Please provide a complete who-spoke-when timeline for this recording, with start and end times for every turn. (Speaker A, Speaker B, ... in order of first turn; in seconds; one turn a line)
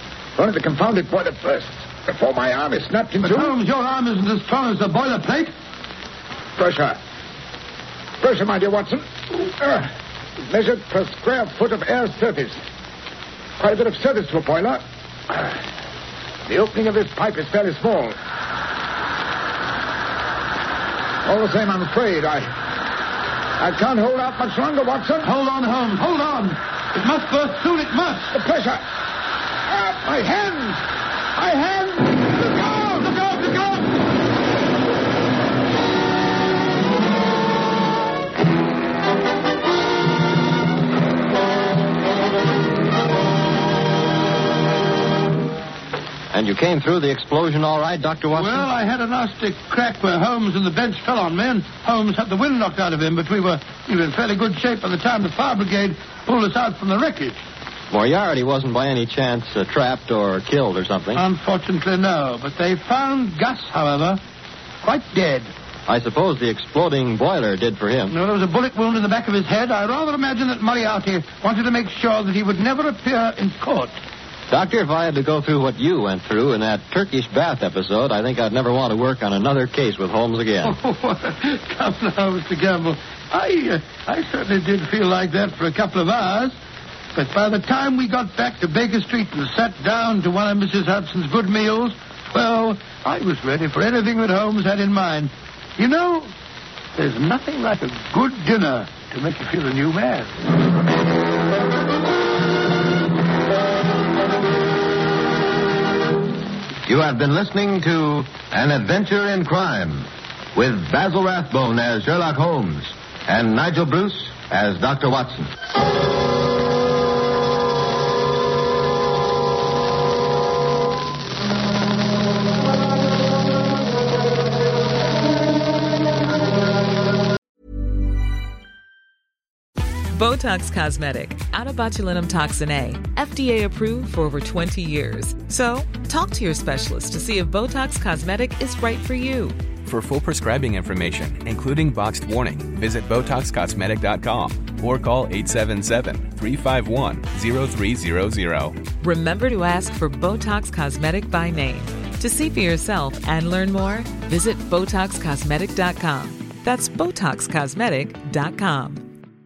Speaker A: 0.3-3.5
Speaker B: 3.2-5.5
Speaker A: 6.6-7.0
Speaker A: 8.2-12.6
Speaker A: 13.6-15.4
Speaker A: 16.4-18.1
Speaker A: 21.2-22.6
Speaker A: 23.6-25.3
Speaker B: 25.2-28.3
Speaker A: 28.3-28.8
Speaker A: 29.7-33.9
Speaker C: 46.3-48.7
Speaker B: 48.3-57.4
Speaker C: 57.9-61.2
Speaker B: 61.1-64.2
Speaker B: 64.8-65.5
Speaker C: 65.9-68.1
Speaker B: 68.1-74.0
Speaker C: 74.5-80.8
Speaker B: 80.6-86.5
Speaker B: 87.1-96.3
Speaker B: 96.9-100.3
Speaker D: 106.8-115.5
Speaker E: 130.1-139.6
Speaker F: 139.8-148.8
Speaker E: 149.0-159.0